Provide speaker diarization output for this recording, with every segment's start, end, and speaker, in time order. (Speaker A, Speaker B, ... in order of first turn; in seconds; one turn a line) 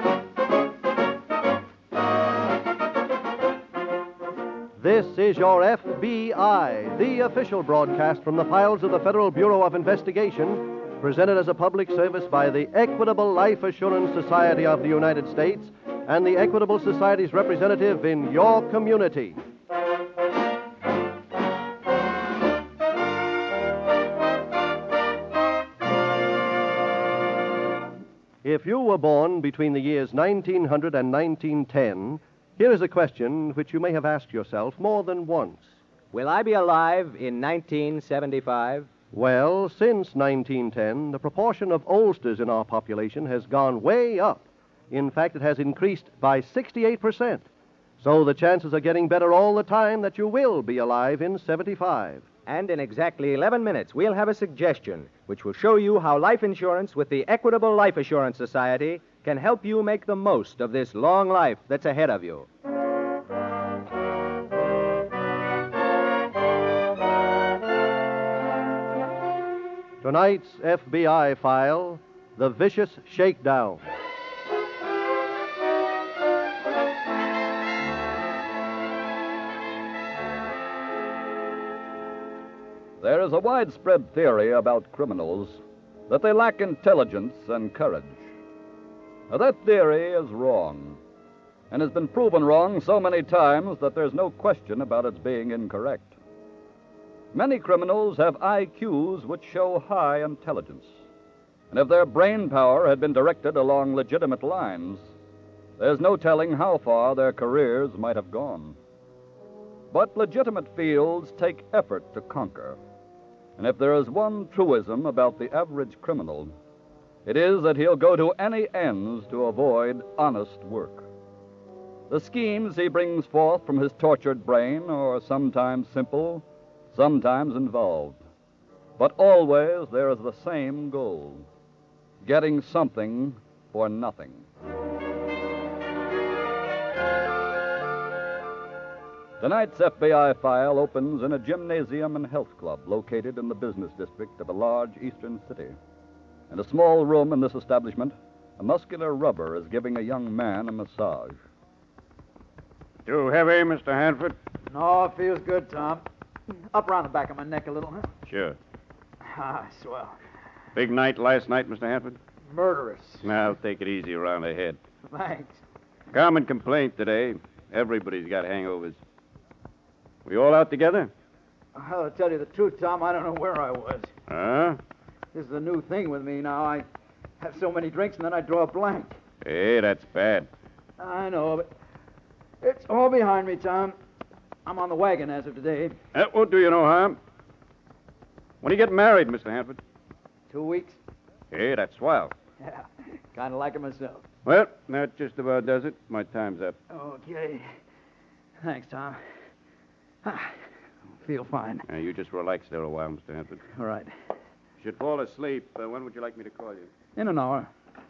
Speaker A: 4.8-19.4
Speaker A: 28.4-35.7
Speaker B: 36.1-38.9
Speaker A: 39.1-47.5
Speaker A: 48.0-52.3
Speaker B: 52.5-62.5
Speaker A: 70.0-73.8
Speaker C: 83.0-88.3
Speaker C: 89.3-91.0
Speaker C: 91.7-96.2
Speaker C: 97.3-101.0
Speaker C: 101.7-105.1
Speaker C: 105.8-108.8
Speaker C: 109.9-112.8
Speaker C: 113.6-116.5
Speaker C: 117.3-121.0
Speaker C: 122.1-128.2
Speaker C: 129.0-131.5
Speaker C: 132.2-134.5
Speaker C: 139.4-145.8
Speaker C: 146.5-151.4
Speaker D: 153.1-154.4
Speaker E: 154.7-156.0
Speaker E: 156.7-158.1
Speaker D: 158.3-158.6
Speaker E: 159.2-160.2
Speaker D: 160.8-162.2
Speaker E: 162.5-163.3
Speaker D: 163.2-164.8
Speaker E: 165.0-165.6
Speaker D: 166.1-169.0
Speaker D: 170.2-171.1
Speaker E: 171.8-174.1
Speaker D: 174.3-174.8
Speaker E: 175.3-176.9
Speaker E: 177.4-179.2
Speaker D: 179.4-180.5
Speaker E: 181.0-181.7
Speaker E: 182.6-184.0
Speaker E: 184.7-186.0
Speaker D: 186.1-187.2
Speaker D: 188.6-189.8
Speaker E: 190.5-191.0
Speaker D: 191.5-192.3
Speaker E: 192.6-194.2
Speaker D: 194.4-196.8
Speaker E: 196.9-197.8
Speaker E: 198.6-199.4
Speaker E: 200.2-200.6
Speaker E: 201.2-201.9
Speaker D: 201.9-203.6
Speaker E: 203.7-204.1
Speaker D: 204.8-206.9
Speaker E: 207.2-207.7